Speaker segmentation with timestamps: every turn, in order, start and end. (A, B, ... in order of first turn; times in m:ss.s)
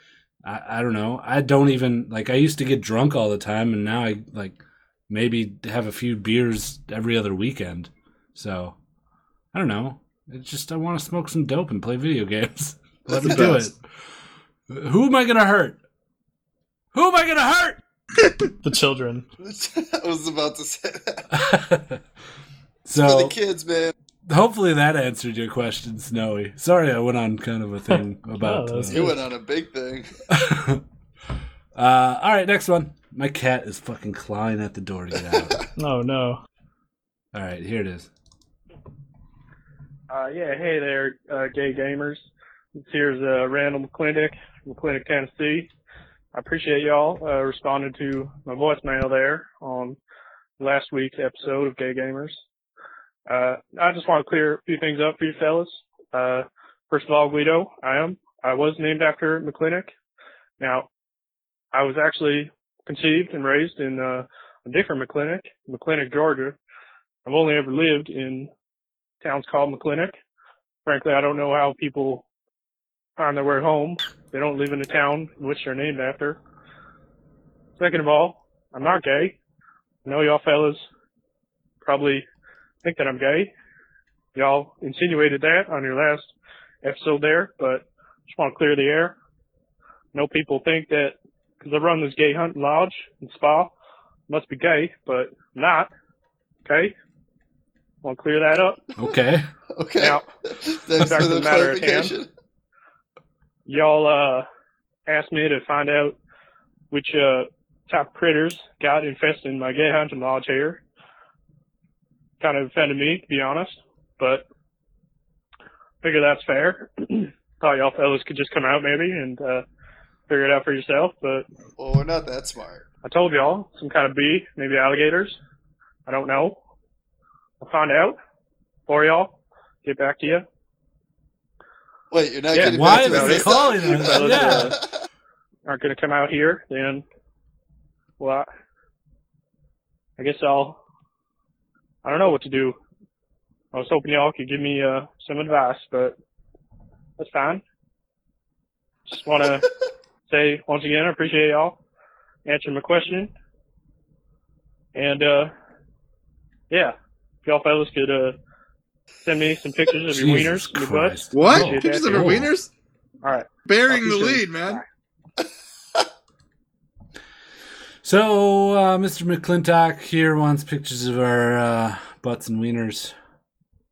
0:00.4-0:08.8 A
0:09.5-0:13.8 A
0:13.1-0:13.7 B
0:13.2-0:13.6 C
0:14.7-0:15.8 A
0:16.9-0:17.8 A
0:18.6-0:19.3 D
0:19.4-0:21.3 C
0:21.3-0:22.0 A
0:22.9-0:23.3 A
0:22.9-0:23.9 C
0:24.3-0:29.0 A
0:28.4-0:29.2 D
0:28.9-0:30.1 C
0:30.3-0:30.8 A
0:31.8-0:35.6 A
0:35.4-0:35.6 C
0:35.8-0:36.4 D
0:37.3-0:38.1 A
0:40.1-0:42.3 E
0:42.8-0:45.7 E
0:46.3-0:50.0 E
0:50.6-0:52.4 E
0:53.3-0:59.9 E
1:00.6-1:00.9 E
1:01.7-1:06.6 E
1:07.2-1:08.5 E
1:09.2-1:10.1 E
1:10.8-1:12.2 E
1:13.2-1:16.4 E
1:17.8-1:19.4 E
1:20.0-1:20.8 E
1:21.8-1:22.2 E
1:22.8-1:23.5 E
1:24.4-1:26.3 E
1:26.8-1:29.2 E
1:30.1-1:33.7 E
1:34.3-1:35.9 E
1:36.6-1:36.9 E
1:38.0-1:38.8 E
1:39.0-1:39.5 A
1:39.8-1:42.3 C
1:40.0-1:40.2 E
1:41.0-1:42.1 E
1:43.7-1:44.5 E
1:45.1-1:46.2 E
1:46.9-1:50.8 E
1:52.4-1:54.4 E
1:56.0-1:59.6 E
2:00.3-2:01.5 E
2:01.8-2:02.8 C
2:03.0-2:05.4 E
2:06.1-2:06.6 E
2:07.6-2:08.2 E
2:08.9-2:10.4 E
2:12.1-2:14.9 C
2:12.5-2:14.8 E
2:12.6-2:14.8 A
2:15.7-2:17.0 E
2:18.2-2:18.5 E
2:20.2-2:20.8 E
2:22.0-2:22.8 E
2:23.7-2:26.2 E
2:27.2-2:27.6 E
2:29.1-2:29.7 E
2:30.3-2:31.8 E
2:32.4-2:33.3 E
2:35.0-2:35.5 E
2:36.7-2:38.4 E
2:39.2-2:42.5 E
2:40.1-2:42.5 A
2:41.3-2:42.7 B
2:43.2-2:43.5 E
2:43.7-2:44.8 B
2:43.9-2:44.4 C
2:48.0-2:53.1 A